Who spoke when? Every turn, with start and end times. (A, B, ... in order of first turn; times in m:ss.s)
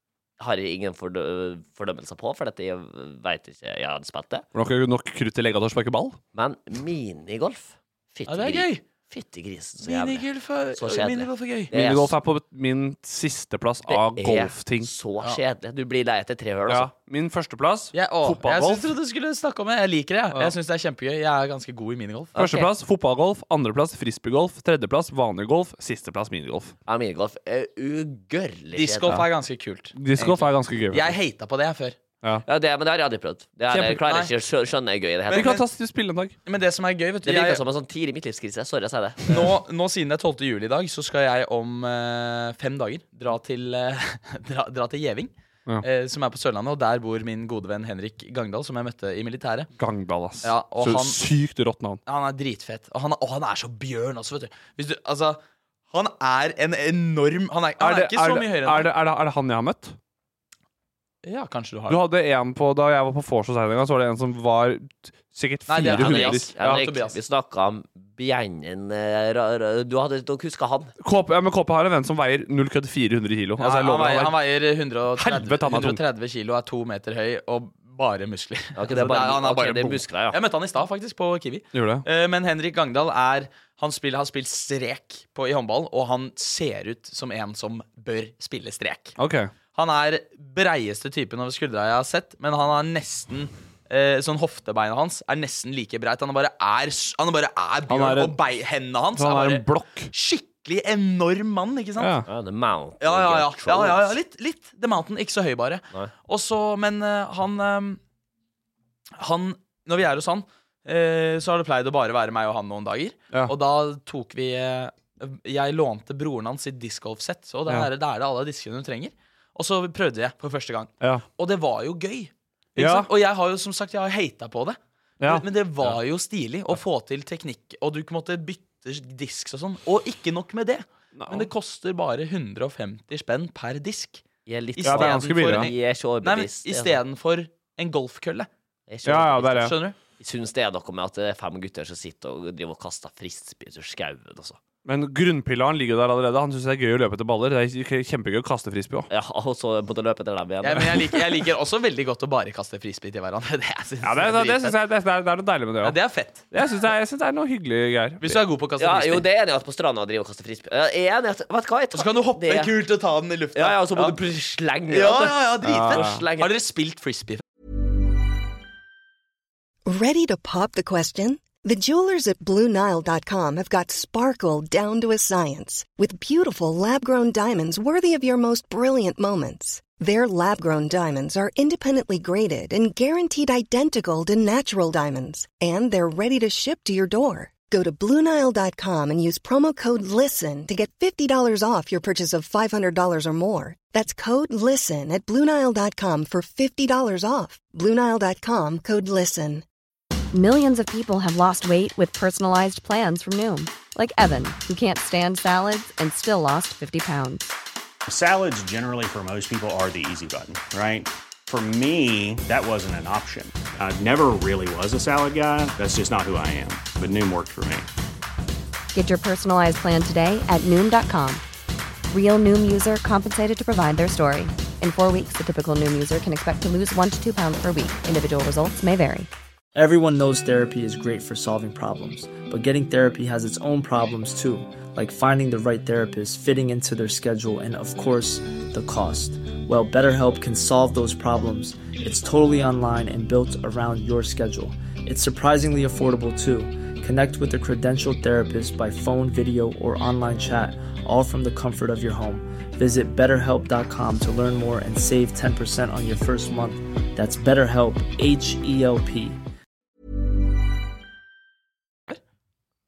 0:00.4-0:04.4 A
0:04.5-0:06.2 B
0:06.3-0:12.1 A
0:08.3-0:08.8 C
0:09.8-0:11.7 C
0:11.7-0:14.9 B
0:13.9-0:16.9 A
0:16.7-0:18.8 B
0:17.9-0:22.4 C
0:22.3-0:22.7 A
0:22.4-0:26.7 B
0:26.8-0:29.2 A
0:28.7-0:32.0 C
0:29.9-0:31.2 B
0:32.4-0:35.5 A
0:33.7-0:34.0 B
0:34.0-0:34.3 C
0:35.3-0:35.6 C
0:35.3-0:36.4 B
0:36.4-0:37.6 C
0:37.2-0:39.5 A
0:39.3-0:45.3 C
0:45.8-0:49.7 C
0:49.8-0:52.0 B
0:50.4-0:51.2 C
0:52.0-0:55.4 C
0:55.9-0:58.9 C
0:57.8-1:00.0 B
1:01.2-1:02.0 C
1:01.9-1:06.8 B
1:05.7-1:07.2 C
1:05.9-1:10.9 A
1:11.0-1:14.4 B
1:13.6-1:29.2 C
1:15.2-1:16.0 B
1:18.7-1:20.4 A
1:21.7-1:22.0 B
1:29.2-1:29.5 B
1:29.7-1:42.2 C
1:37.9-1:38.4 B
1:39.1-1:40.1 B
1:42.0-1:42.3 B
1:42.3-1:44.2 A
1:43.0-1:48.0 C
1:49.2-2:14.2 C
2:02.8-2:03.1 B
2:05.2-2:06.0 B
2:11.2-2:11.5 B
2:14.4-2:17.0 A
2:14.8-2:18.5 C
2:14.8-2:15.7 B
2:18.9-2:24.6 A
2:19.0-2:19.7 B
2:19.5-2:20.0 C
2:24.8-2:29.1 B
2:29.1-2:31.0 A
2:30.6-2:34.8 C
2:34.0-2:36.0 B
2:35.8-2:36.5 C
2:36.5-2:38.4 B
2:38.2-2:39.3 C
2:38.8-2:42.8 A
2:41.9-2:44.2 C
2:43.5-2:46.5 A
2:44.9-2:47.4 C
2:45.6-2:46.2 B
2:49.8-3:19.6 D
3:20.3-3:27.5 E
3:28.1-3:37.9 F
3:38.9-3:41.4 E
3:42.1-3:49.3 E
3:49.7-4:19.4 G